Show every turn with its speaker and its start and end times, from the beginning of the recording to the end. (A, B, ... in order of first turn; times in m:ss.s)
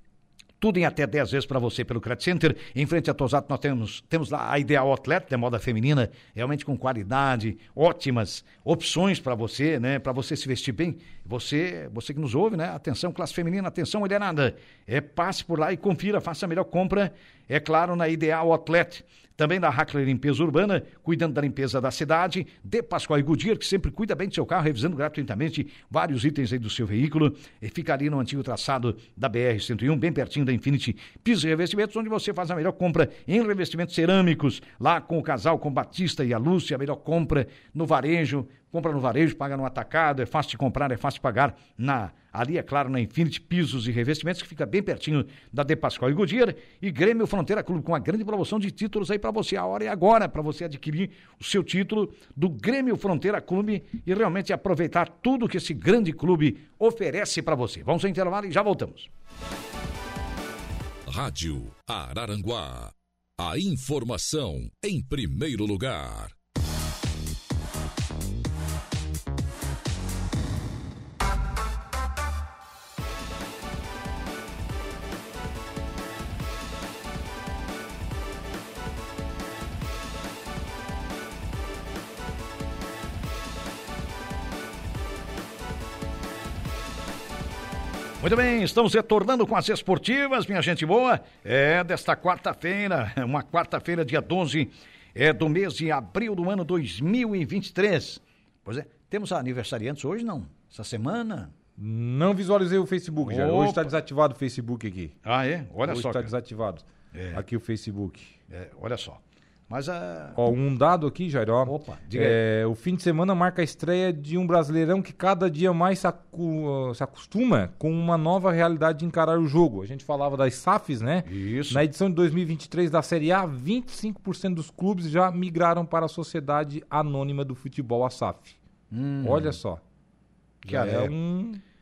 0:00.6-0:59.1 A
1:01.1-1:06.3 B
1:28.2-1:41.5 A
1:41.8-1:45.1 C
1:43.2-1:43.9 A
1:45.2-1:46.3 A
1:45.8-1:48.3 C
1:47.1-1:47.4 A
1:48.5-1:50.4 A
1:50.4-2:08.6 C
1:51.7-1:52.4 A
2:01.3-2:01.8 A
2:08.9-2:09.6 A
2:09.2-2:09.8 C
2:10.6-2:11.6 C
2:10.6-2:11.1 A